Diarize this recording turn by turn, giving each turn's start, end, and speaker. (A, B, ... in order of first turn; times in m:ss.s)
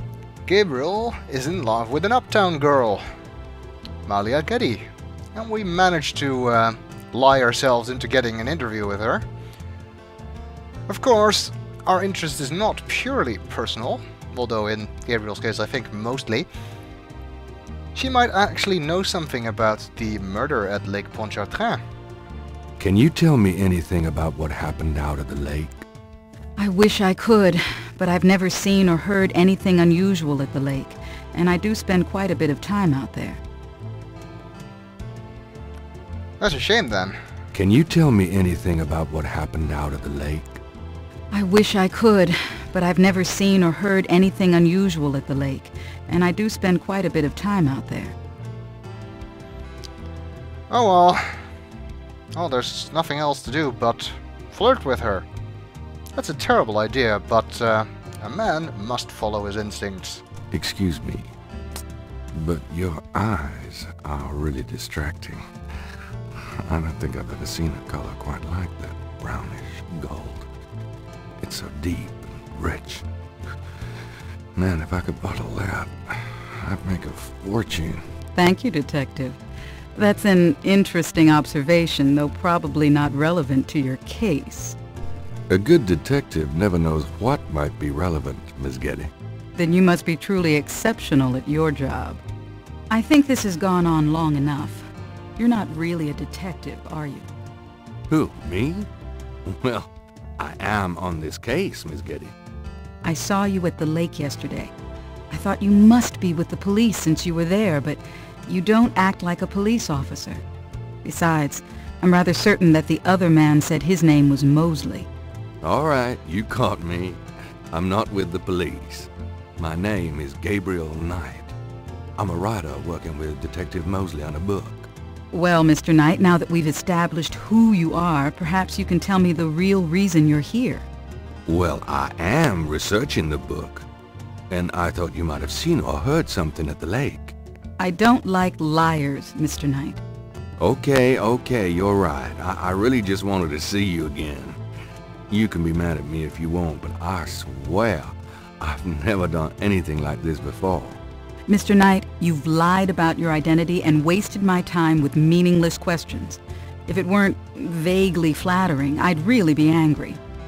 0:00.4-0:03.0 A
0:04.0-0:04.8 A
0:05.3-0:09.2 A
0:10.9-0:16.5 A
0:17.9-0:21.8 A
0:22.8-0:25.8 B
0:26.6-0:33.4 C
0:36.4-0:37.2 A
0:37.5-0:40.6 B
0:41.3-0:48.1 C
0:50.7-0:51.4 A
0:52.3-0:55.2 A
0:56.1-1:00.2 A
1:00.5-1:01.3 B
1:02.3-1:05.4 B
1:06.4-1:10.5 B
1:11.4-1:13.0 B
1:14.6-1:18.0 B
1:18.3-1:19.4 C
1:19.9-1:24.8 C
1:25.5-1:29.1 B
1:29.6-1:32.2 C
1:32.9-1:37.3 C
1:38.1-1:38.9 B
1:39.4-1:42.3 B
1:43.0-1:44.7 C
1:45.3-1:50.4 C
1:51.0-1:55.1 C
1:55.6-2:01.5 B
2:02.2-2:04.9 B
2:05.3-2:10.8 C
2:11.4-2:13.9 B
2:14.5-2:17.4 B
2:17.8-2:20.0 C
2:20.6-2:24.6 B
2:25.3-2:31.0 B
2:31.5-2:40.2 C